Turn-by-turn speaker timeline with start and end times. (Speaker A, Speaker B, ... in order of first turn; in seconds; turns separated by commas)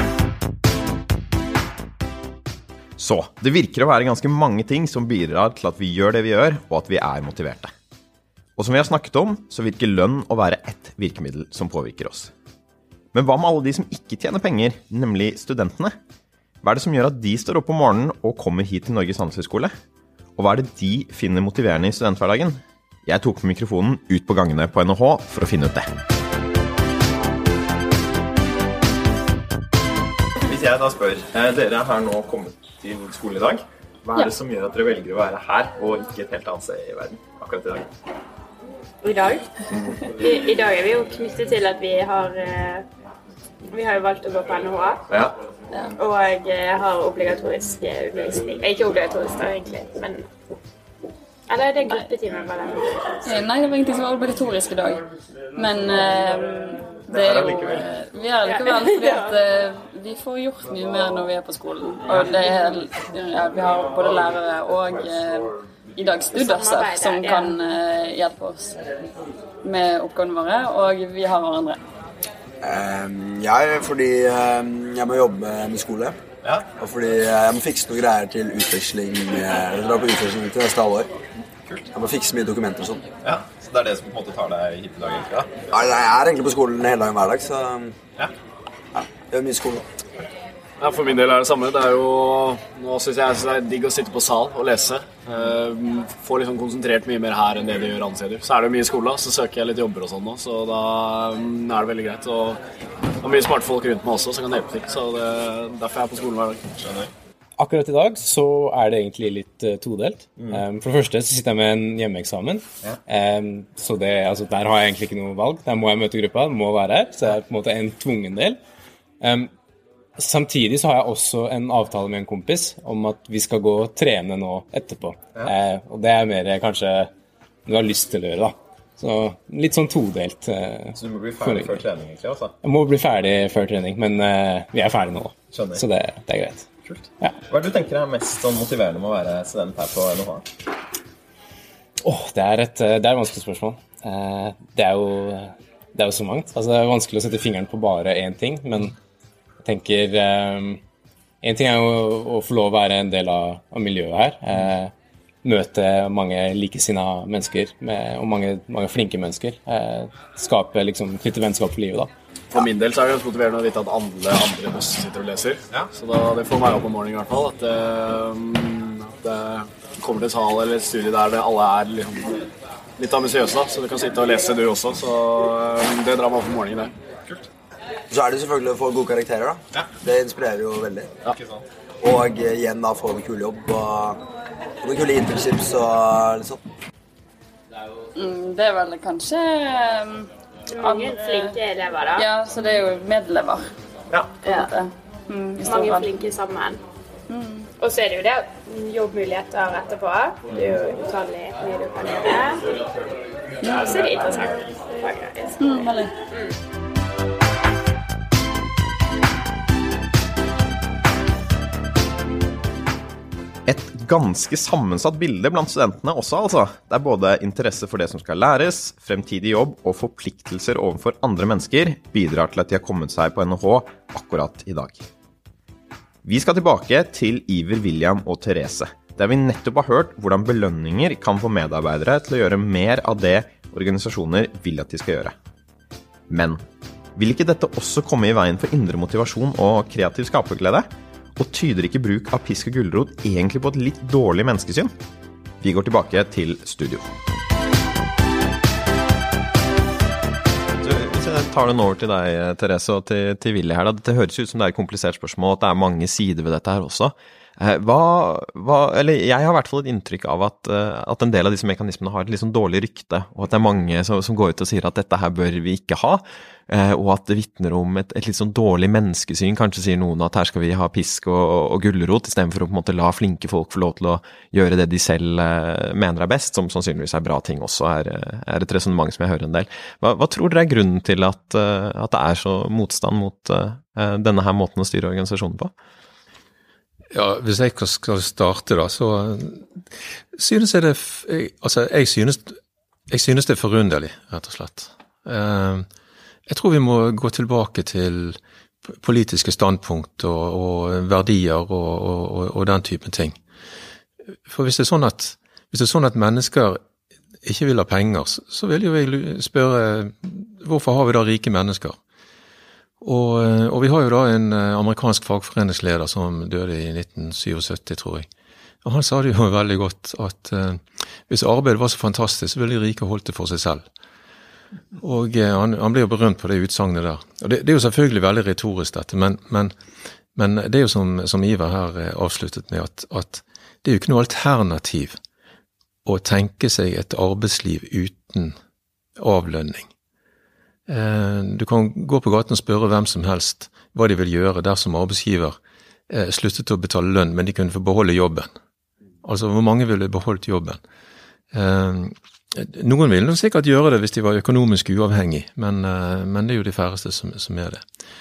Speaker A: 3.0-7.7, Speaker A: 8.6-12.3, Speaker A: 13.1-15.9, Speaker A: 16.6-19.7, Speaker A: 20.4-25.9, Speaker A: 30.4-37.9, Speaker B: 39.0-39.5, Speaker B: 40.2-42.9, Speaker B: 43.7-45.0, Speaker A: 45.1-45.3, Speaker C: 45.7-46.0, Speaker B: 46.0-50.3, Speaker B: 51.5-53.1, Speaker C: 53.2-68.8, Speaker B: 58.4-59.4, Speaker B: 66.3-67.5, Speaker C: 69.6-71.8, Speaker D: 72.6-76.2, Speaker D: 76.8-81.1, Speaker D: 81.9-83.0, Speaker A: 83.2-85.6, Speaker D: 85.7-87.9, Speaker D: 88.9-89.8, Speaker E: 90.8-102.6, Speaker E: 103.2-106.6, Speaker A: 106.8-107.1, Speaker F: 107.6-118.6, Speaker F: 119.2-119.5, Speaker F: 120.2-127.1, Speaker F: 127.7-131.8, Speaker A: 130.9-132.5, Speaker F: 132.6-136.7, Speaker A: 135.5-135.8, Speaker A: 136.9-140.5, Speaker F: 142.0-148.9, Speaker F: 149.6-150.8, Speaker F: 151.4-154.9, Speaker F: 155.4-162.1, Speaker E: 162.5-172.5, Speaker E: 173.0-176.9, Speaker D: 178.1-181.1, Speaker A: 181.3-181.6, Speaker D: 182.0-184.2, Speaker D: 184.8-186.6, Speaker C: 188.2-191.6, Speaker B: 190.7-192.2, Speaker C: 192.2-193.7, Speaker C: 194.4-196.1, Speaker B: 195.6-196.8, Speaker C: 197.3-197.7, Speaker B: 197.8-202.6, Speaker C: 203.6-204.4, Speaker B: 203.7-205.6, Speaker C: 205.6-206.1, Speaker A: 213.7-225.0, Speaker A: 226.2-235.3, Speaker A: 236.3-236.6, Speaker A: 237.2-244.9, Speaker A: 245.6-247.1, Speaker A: 250.8-285.7, Speaker G: 287.1-289.7, Speaker G: 290.3-292.6, Speaker G: 293.1-295.9, Speaker G: 296.5-303.4, Speaker G: 304.4-306.8, Speaker G: 307.4-312.0, Speaker G: 313.0-318.3, Speaker G: 318.8-323.9, Speaker G: 325.0-329.7, Speaker G: 330.3-335.2, Speaker G: 336.0-338.6, Speaker G: 339.2-339.9, Speaker G: 340.9-345.6, Speaker G: 346.1-348.5, Speaker G: 349.2-350.8, Speaker G: 351.5-357.9